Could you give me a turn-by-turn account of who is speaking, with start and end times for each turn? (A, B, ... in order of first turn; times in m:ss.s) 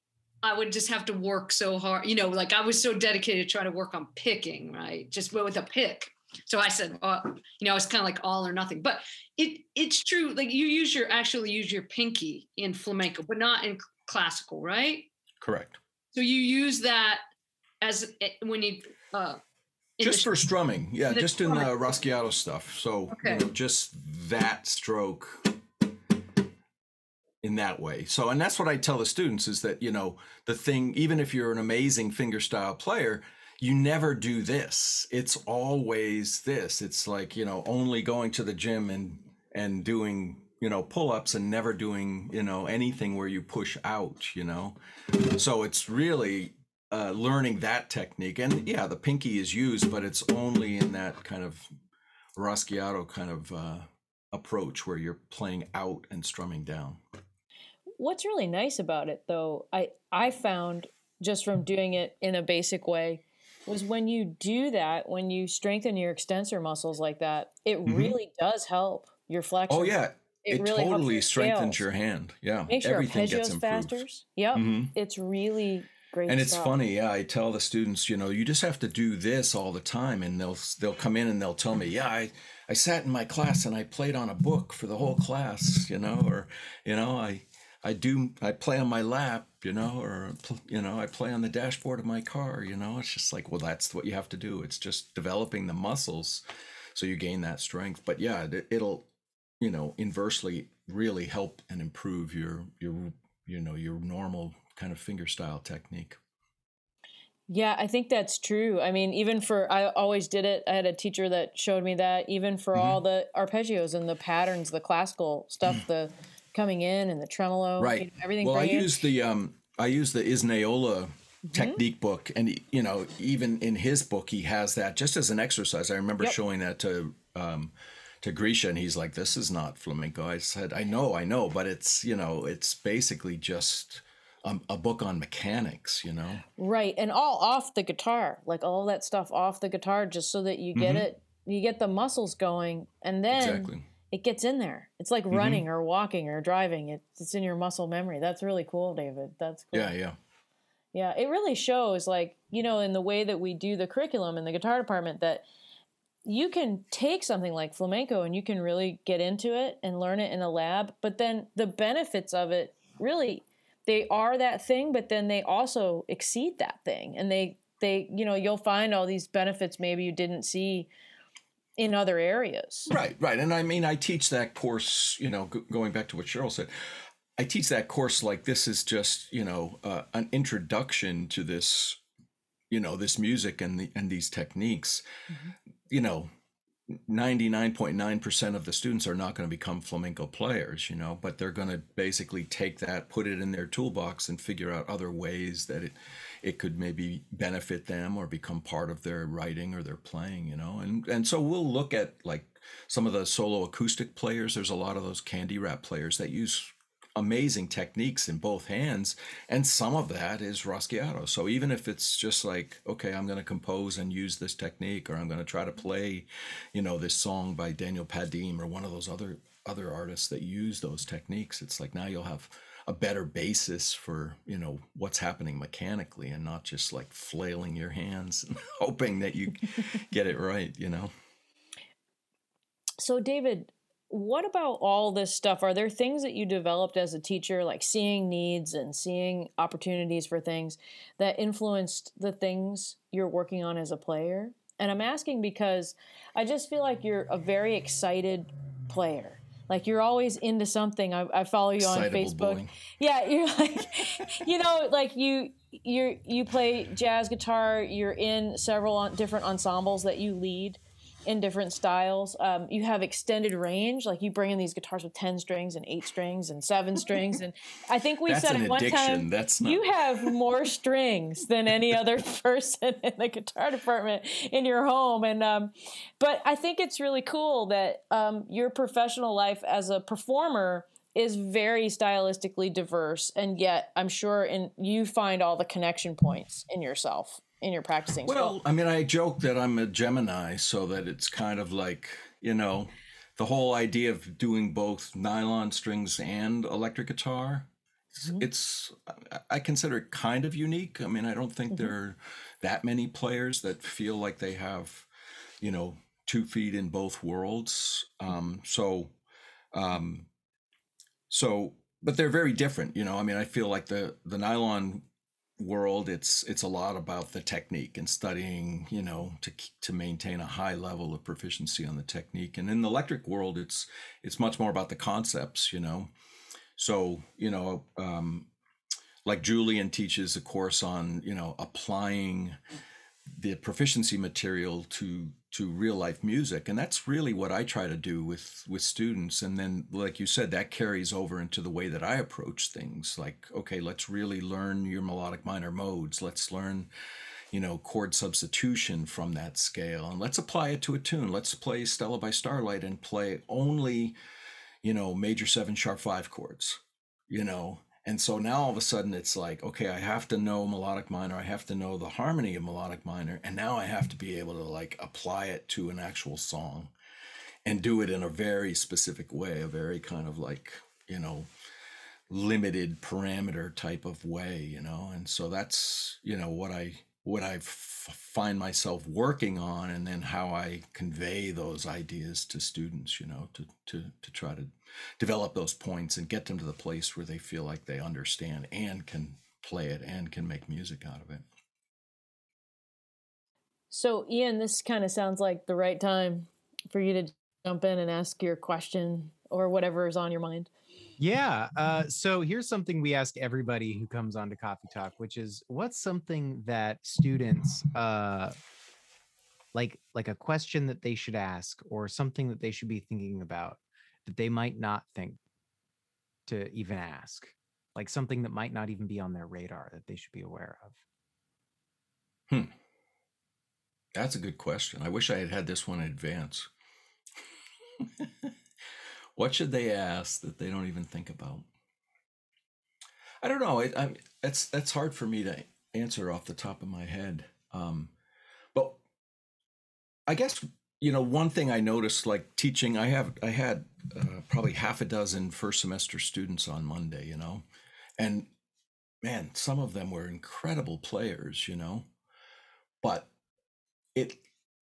0:00.4-0:15.1 A
0:15.4-0:15.8 B
0:16.1-0:17.2 A
0:17.8-0:19.4 A
0:20.0-0:20.3 A
0:20.0-0:25.5 B
0:21.1-0:21.8 A
0:23.1-0:23.5 A
0:27.4-0:51.7 B
0:52.4-0:57.0 B
0:58.0-1:11.8 C
1:07.8-1:08.2 B
1:09.7-1:14.0 B
1:12.7-1:16.7 C
1:14.5-1:14.9 B
1:16.3-1:36.4 B
1:36.9-1:39.0 B
1:39.6-1:46.2 B
1:47.5-1:59.0 C
1:52.7-1:53.0 B
1:57.8-2:16.4 B
2:01.5-2:01.8 C
2:16.6-2:29.9 C
2:20.7-2:21.1 B
2:23.3-2:23.9 B
2:25.3-2:25.6 B
2:29.7-2:30.2 B
2:30.9-2:35.5 C
2:36.2-2:50.9 C
2:51.8-2:52.9 C
2:52.9-2:56.7 B
2:57.4-3:02.0 B
3:02.7-3:05.0 B
3:05.9-3:06.3 B
3:06.9-3:51.1 B
3:53.0-4:48.6 C
4:11.8-4:12.7 B
4:28.3-4:30.3 B
4:48.2-5:05.1 B
5:05.6-5:09.1 B
5:09.7-5:10.3 B
5:11.3-5:15.0 B
5:15.6-5:26.1 B
5:26.8-5:28.5 B
5:29.2-5:32.6 B
5:33.4-5:46.9 B
5:47.5-5:54.2 B
5:54.8-6:06.9 B
6:07.6-6:11.5 B
6:12.3-6:31.4 B
6:33.9-6:40.7 C
6:41.2-6:48.5 D
6:49.7-6:55.4 D
6:56.5-7:01.0 D
7:04.1-7:06.7 B
7:08.0-7:08.5 B
7:09.4-7:11.6 B
7:13.4-7:18.1 B
7:18.7-7:19.0 B
7:20.3-7:27.6 B
7:28.2-7:28.5 B
7:29.2-7:32.0 B
7:33.0-7:33.3 B
7:34.1-7:34.4 B